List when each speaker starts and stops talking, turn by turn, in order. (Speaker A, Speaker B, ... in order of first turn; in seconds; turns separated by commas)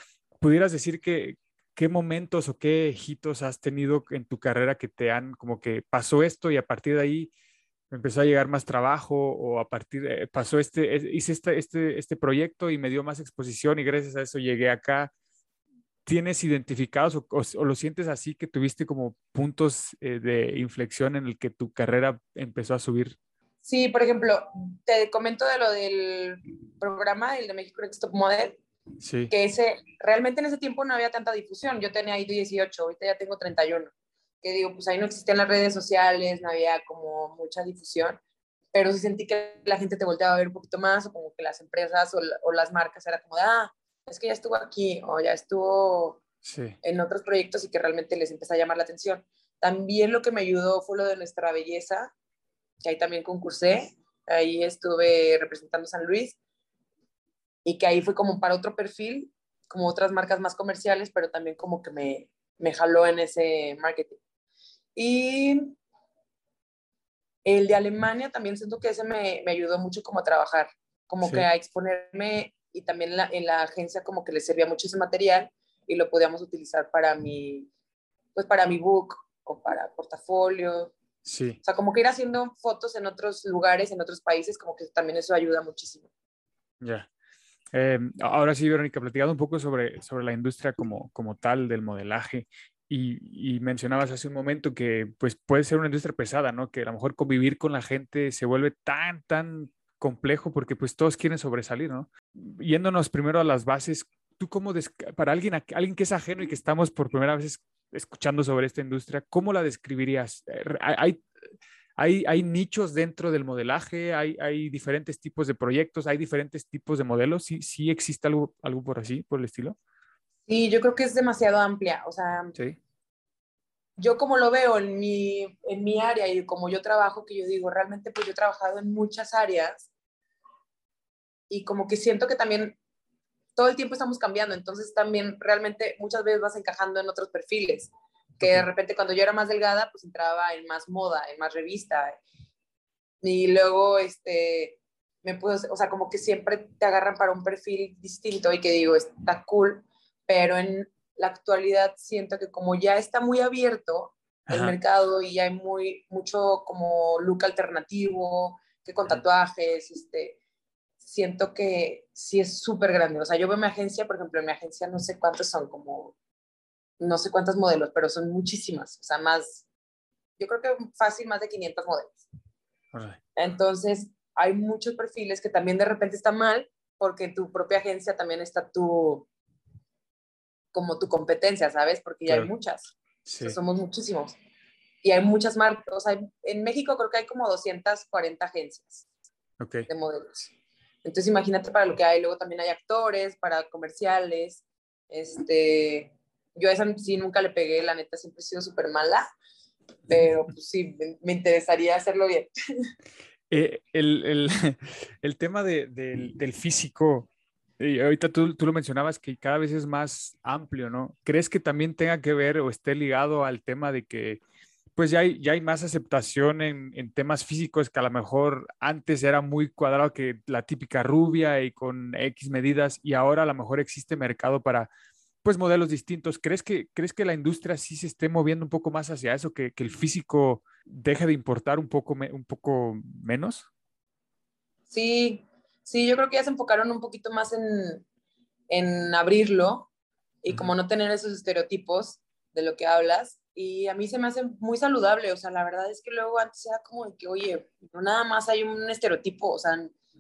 Speaker A: 0.4-7.3, Speaker A: 7.9-15.1, Speaker A: 16.1-23.2, Speaker B: 23.6-28.6, Speaker A: 29.0-29.3, Speaker B: 29.3-38.2, Speaker B: 38.7-46.2, Speaker A: 46.4-46.8, Speaker B: 46.8-52.1, Speaker B: 52.8-56.4, Speaker B: 57.6-64.2, Speaker B: 65.0-65.7, Speaker B: 67.5-77.7, Speaker B: 78.3-80.9, Speaker A: 81.2-81.6, Speaker B: 81.6-86.1, Speaker A: 86.8-87.1, Speaker A: 87.7-111.2, Speaker A: 112.0-119.8, Speaker B: 120.5-122.5, Speaker B: 124.0-129.9, Speaker B: 131.5-132.8, Speaker B: 133.6-137.9, Speaker A: 138.4-138.7, Speaker B: 138.4-142.2, Speaker B: 143.2-160.4, Speaker A: 154.5-154.8, Speaker B: 161.0-166.1, Speaker B: 167.0-169.6, Speaker B: 170.4-172.2, Speaker A: 172.9-173.2, Speaker B: 173.4-179.3, Speaker B: 180.7-184.4, Speaker A: 183.2-183.6, Speaker B: 185.0-189.1, Speaker A: 189.6-189.9, Speaker B: 189.9-190.5, Speaker B: 191.0-199.3, Speaker B: 200.1-202.5, Speaker A: 203.5-207.3, Speaker A: 207.8-214.4, Speaker A: 215.0-224.9, Speaker A: 225.4-233.7, Speaker B: 234.9-238.0, Speaker B: 238.7-239.9, Speaker B: 240.4-249.9